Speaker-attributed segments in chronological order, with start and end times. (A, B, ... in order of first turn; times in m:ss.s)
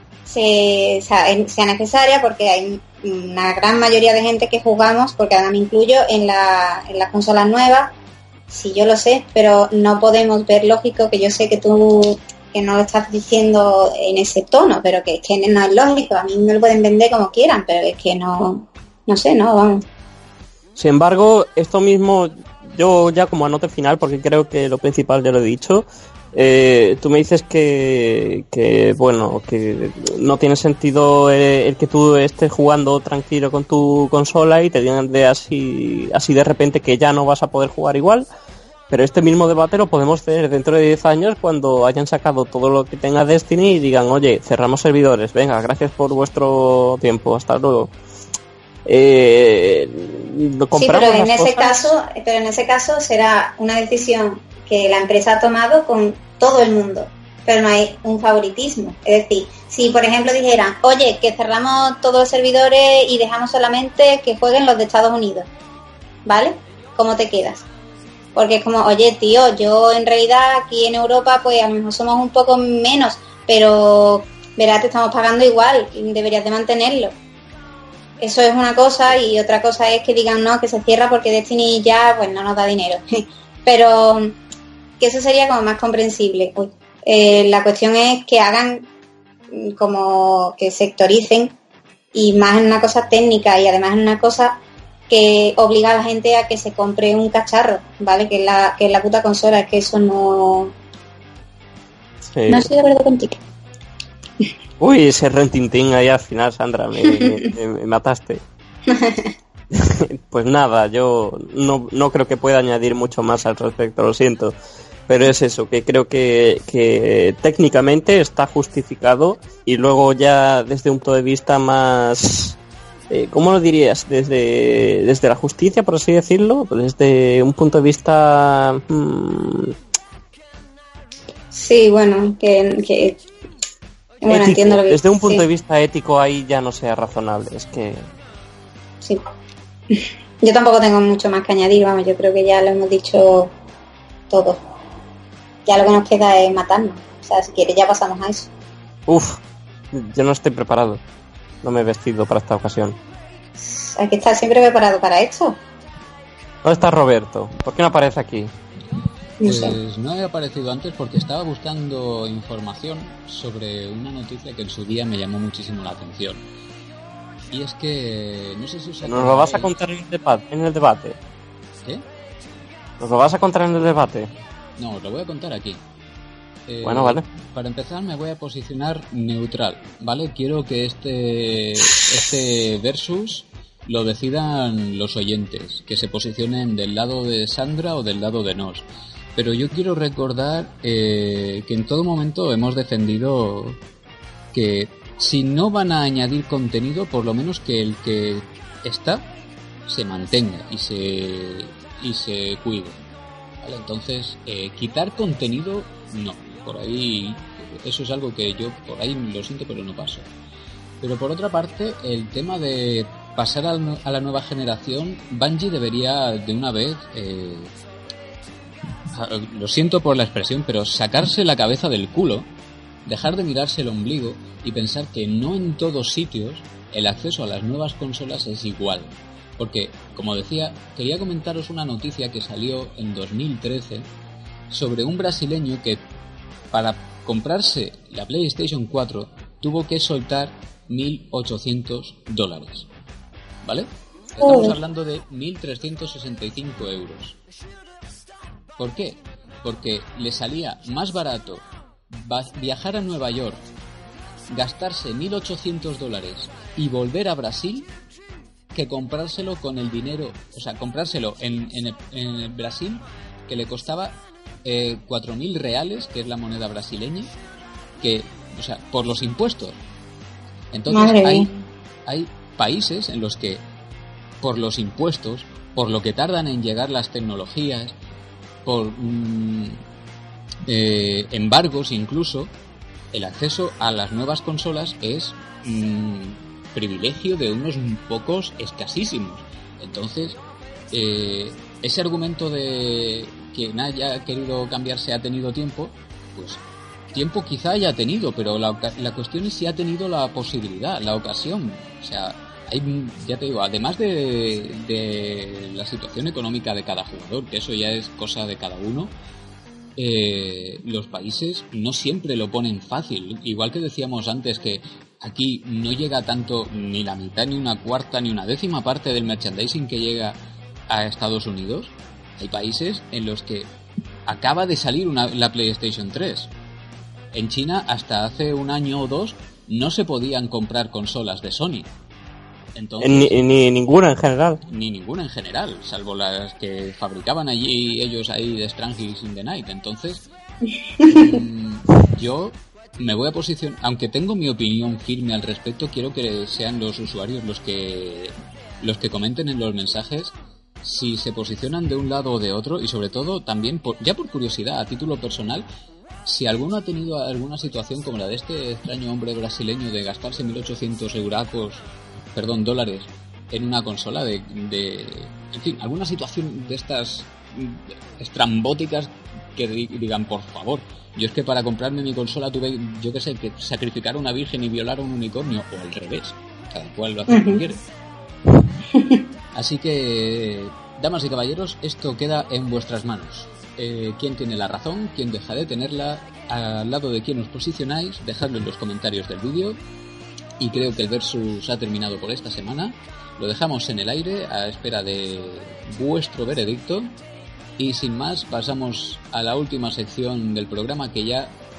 0:00.3-0:07.9 A
0:08.5-0:19.8 A
0:20.8-0:38.3 B
0:38.9-0:47.9 B
0:48.9-0:51.9 B
0:50.8-1:05.5 A
1:06.3-1:07.7 A
1:08.4-1:17.1 A
1:18.2-1:24.4 A
1:25.0-1:28.9 A
1:29.5-1:31.6 A
1:32.1-1:40.8 A
1:42.3-1:42.7 B
1:42.5-1:43.4 A
1:44.8-1:48.4 B
1:47.1-1:47.4 A
1:48.9-1:49.3 A
1:49.7-1:54.6 B
1:55.1-2:02.6 B
2:03.1-2:09.8 B
2:11.5-2:13.2 A
2:14.2-2:15.4 A
2:14.3-2:18.0 B
2:19.9-2:23.5 A
2:24.3-2:24.6 A
2:25.7-2:28.5 A
2:29.1-2:29.4 B
2:29.9-2:31.0 B
2:31.6-2:33.0 B
2:33.6-2:35.6 A
2:36.6-2:38.5 B
2:39.4-2:39.8 A
2:39.4-2:46.4 C
2:47.5-2:49.7 C
2:49.0-2:51.2 B
2:53.0-2:54.3 B
2:54.8-2:55.8 C
2:56.7-3:13.8 C
2:56.8-2:57.3 B
3:14.5-3:19.3 C
3:19.9-3:23.0 C
3:23.6-3:30.3 C
3:31.0-3:37.7 C
3:39.1-3:42.5 C
3:43.0-3:54.1 C
3:54.7-3:56.0 C
3:56.7-4:02.9 C
4:03.6-4:07.4 C
4:04.4-4:04.8 A
4:08.8-4:13.6 C
4:14.5-4:17.9 C
4:18.7-4:27.3 C
4:28.0-4:29.8 C
4:30.7-4:31.5 C
4:30.9-4:31.5 A
4:32.0-4:33.6 C
4:34.4-4:38.0 C
4:38.6-4:39.8 C
4:40.7-4:42.5 C
4:43.1-4:50.4 C
4:50.9-4:56.6 C
4:57.1-5:09.1 C
5:10.0-5:20.4 C
5:20.9-5:23.7 C
5:24.3-5:26.5 C
5:27.3-5:31.9 C
5:32.8-5:33.5 C
5:33.0-5:34.6 B
5:34.7-5:40.2 C
5:41.0-5:41.3 A
5:41.0-5:55.7 C
5:56.2-6:17.8 C
6:17.3-6:17.6 A
6:18.9-6:19.2 A
6:19.5-6:29.8 C
6:30.6-6:37.1 C
6:37.8-6:41.5 C